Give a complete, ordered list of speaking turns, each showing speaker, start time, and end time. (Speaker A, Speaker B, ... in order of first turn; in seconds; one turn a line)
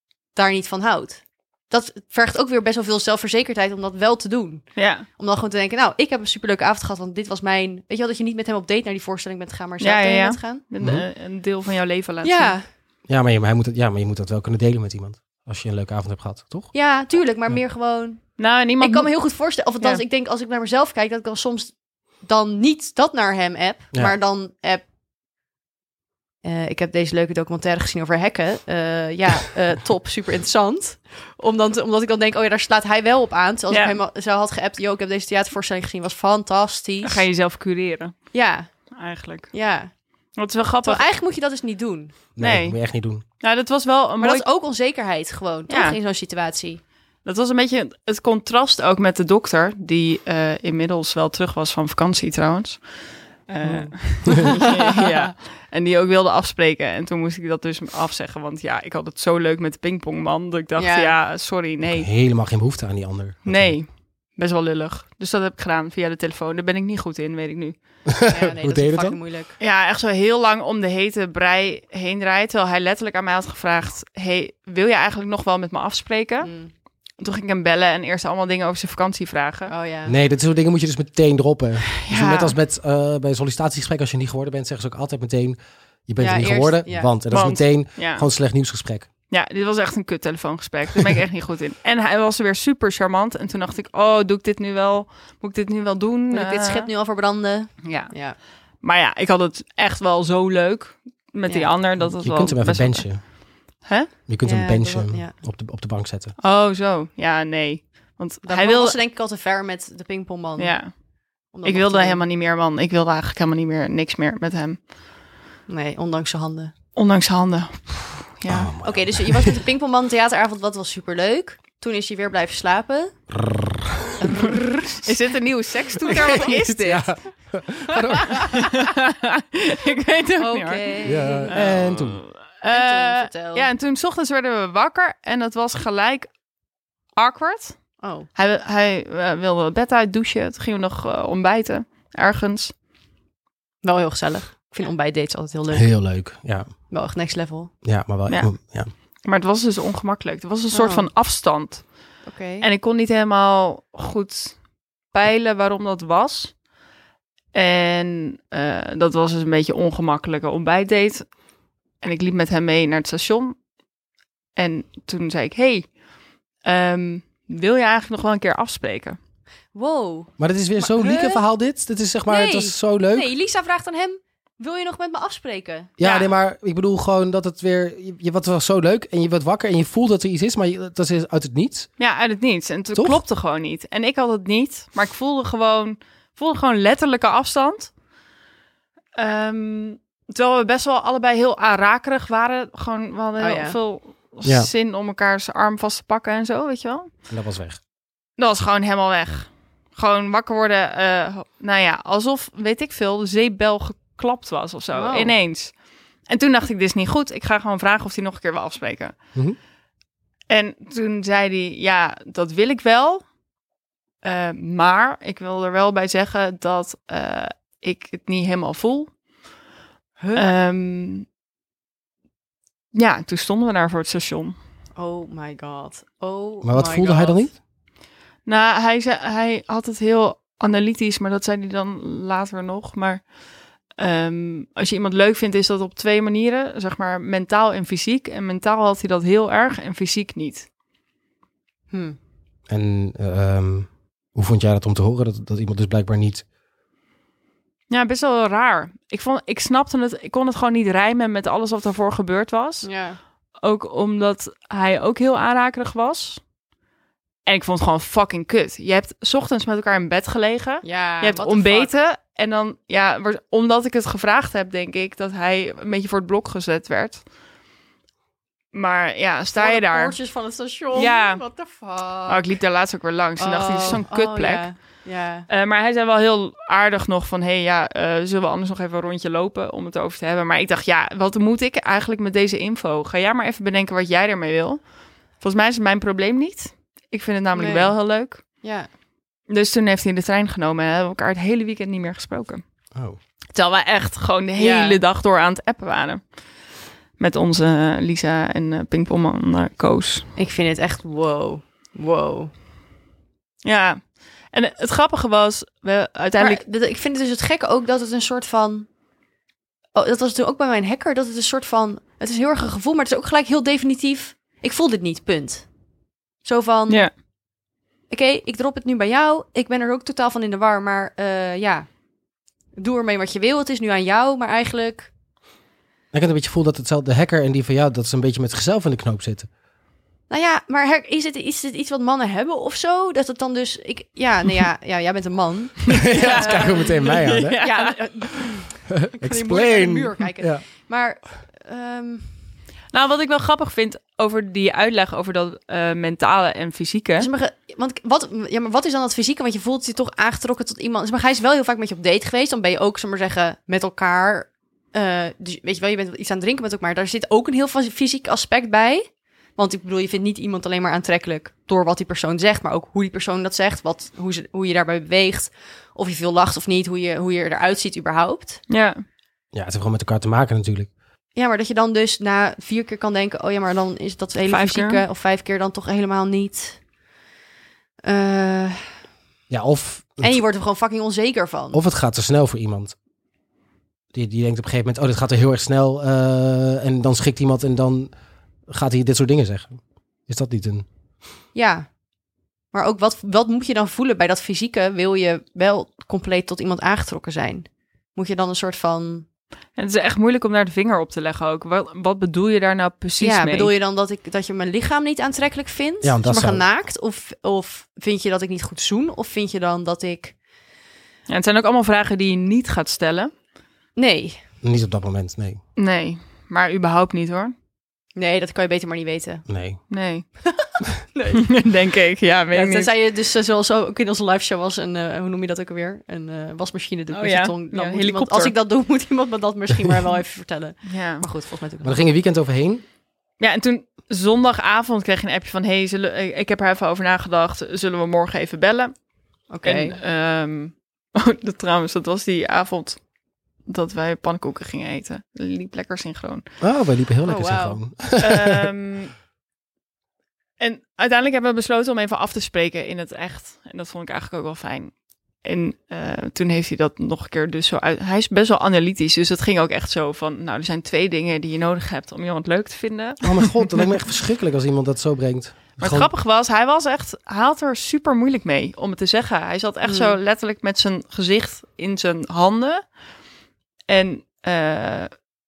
Speaker A: 0.3-10.6
Speaker B: 4.8-5.0
Speaker B: 9.8-12.5
Speaker C: 10.8-11.0
Speaker A: 12.2-12.7
Speaker C: 13.1-16.7
Speaker A: 16.7-24.8
Speaker B: 18.4-20.0
Speaker A: 26.4-37.2
Speaker B: 33.7-34.0
Speaker B: 37.0-38.1
Speaker A: 38.3-38.7
Speaker B: 38.9-39.5
Speaker A: 39.5-39.9
Speaker B: 40.3-41.0
Speaker A: 40.8-42.1
Speaker C: 42.4-43.2
Speaker B: 42.4-42.8
Speaker B: 43.4-44.5
Speaker A: 44.2-46.8
Speaker B: 45.7-46.0
Speaker B: 47.2-52.9
Speaker B: 53.5-62.1
Speaker A: 53.6-55.3
Speaker A: 60.8-61.1
Speaker C: 61.9-63.8
Speaker B: 63.5-67.8
Speaker C: 68.1-69.2
Speaker A: 68.3-69.5
Speaker B: 69.6-76.5
Speaker A: 76.4-76.7
Speaker B: 77.2-79.7
Speaker A: 79.7-80.2
Speaker C: 80.0-89.1
Speaker B: 82.0-82.5
Speaker A: 86.2-87.1
Speaker B: 87.3-88.2
Speaker B: 89.3-96.9
Speaker A: 96.3-98.4
Speaker B: 97.8-98.1
Speaker B: 98.8-104.1
Speaker C: 102.0-103.2
Speaker C: 104.3-106.3
Speaker A: 104.4-105.3
Speaker B: 106.4-109.0
Speaker A: 108.4-110.8
Speaker B: 110.6-110.9
Speaker A: 111.5-112.2
Speaker B: 111.6-114.8
Speaker A: 115.7-116.7
Speaker B: 117.0-118.7
Speaker C: 118.5-119.6
Speaker A: 118.8-123.2
Speaker C: 123.4-124.1
Speaker A: 124.2-125.1
Speaker B: 124.9-127.2
Speaker A: 126.0-126.5
Speaker C: 126.1-128.7
Speaker B: 128.3-136.3
Speaker A: 130.4-131.6
Speaker C: 131.0-132.2
Speaker A: 132.7-133.7
Speaker B: 137.2-142.7
Speaker A: 138.0-138.3
Speaker A: 143.8-145.9
Speaker C: 145.7-146.7
Speaker A: 146.9-147.7
Speaker C: 147.8-148.9
Speaker B: 148.3-148.5
Speaker B: 149.2-156.6
Speaker A: 150.7-151.1
Speaker A: 152.2-152.7
Speaker B: 157.5-161.3
Speaker B: 162.0-163.6
Speaker B: 164.6-165.9
Speaker B: 166.6-169.2
Speaker A: 169.7-171.4
Speaker C: 170.4-173.3
Speaker A: 172.3-175.9
Speaker C: 176.0-181.9
Speaker B: 176.0-176.3
Speaker B: 182.0-187.9
Speaker C: 182.9-183.2
Speaker B: 189.1-197.1
Speaker A: 193.4-193.8
Speaker C: 194.4-194.7
Speaker C: 197.3-197.8
Speaker B: 198.4-205.7
Speaker A: 204.9-205.3
Speaker B: 206.3-209.2
Speaker B: 210.5-213.3
Speaker B: 214.2-219.2
Speaker A: 220.2-220.5
Speaker B: 220.3-221.2
Speaker B: 222.9-224.6
Speaker A: 224.9-227.4
Speaker C: 226.6-227.6
Speaker B: 228.4-233.3
Speaker B: 234.0-240.7
Speaker A: 241.9-242.2
Speaker C: 242.7-246.4
Speaker B: 247.9-252.9
Speaker A: 252.8-253.2
Speaker B: 253.6-256.4
Speaker B: 257.4-267.2
Speaker A: 260.8-261.9
Speaker B: 268.7-270.1
Speaker A: 269.5-272.5
Speaker B: 270.9-271.5
Speaker B: 272.2-288.4
Speaker A: 273.4-275.5
Speaker A: 287.5-288.9
Speaker B: 289.5-292.6
Speaker B: 293.5-296.4
Speaker A: 294.6-295.0
Speaker B: 297.2-300.3
Speaker A: 300.4-302.5
Speaker B: 303.6-306.6
Speaker A: 306.4-308.9
Speaker A: 309.9-315.7
Speaker A: 316.4-317.1
Speaker A: 318.1-321.9
Speaker A: 322.8-325.1
Speaker C: 326.1-329.5
Speaker A: 330.3-342.4
Speaker C: 336.0-337.6
Speaker B: 336.0-338.0
Speaker C: 338.9-340.6
Speaker B: 342.9-347.3
Speaker A: 347.2-368.6
Speaker B: 368.7-369.0
Speaker C: 369.5-370.9
Speaker A: 371.3-376.8
Speaker B: 374.5-375.0
Speaker A: 378.0-378.9
Speaker C: 379.5-380.4
Speaker A: 380.2-381.8
Speaker C: 381.7-382.9
Speaker C: 384.1-388.1
Speaker C: 388.7-390.8
Speaker A: 391.5-391.9
Speaker A: 392.7-399.2
Speaker B: 399.8-403.7
Speaker A: 403.2-410.4
Speaker C: 406.0-406.7
Speaker B: 411.3-413.3
Speaker A: 413.9-414.4
Speaker C: 414.6-415.6
Speaker B: 415.8-417.5
Speaker A: 418.1-419.4
Speaker C: 419.5-419.8
Speaker B: 419.9-420.2
Speaker A: 420.4-421.6
Speaker B: 421.4-422.9
Speaker A: 422.5-432.0
Speaker B: 427.1-428.5
Speaker B: 430.9-431.3
Speaker C: 431.8-432.8
Speaker B: 433.4-439.0
Speaker A: 439.5-440.0
Speaker B: 439.6-443.0
Speaker B: 443.6-446.5
Speaker C: 446.6-448.7
Speaker A: 447.2-447.8
Speaker B: 448.2-449.1
Speaker B: 450.6-463.8
Speaker C: 463.2-466.1
Speaker B: 465.8-472.9
Speaker A: 469.8-470.2
Speaker B: 473.9-475.1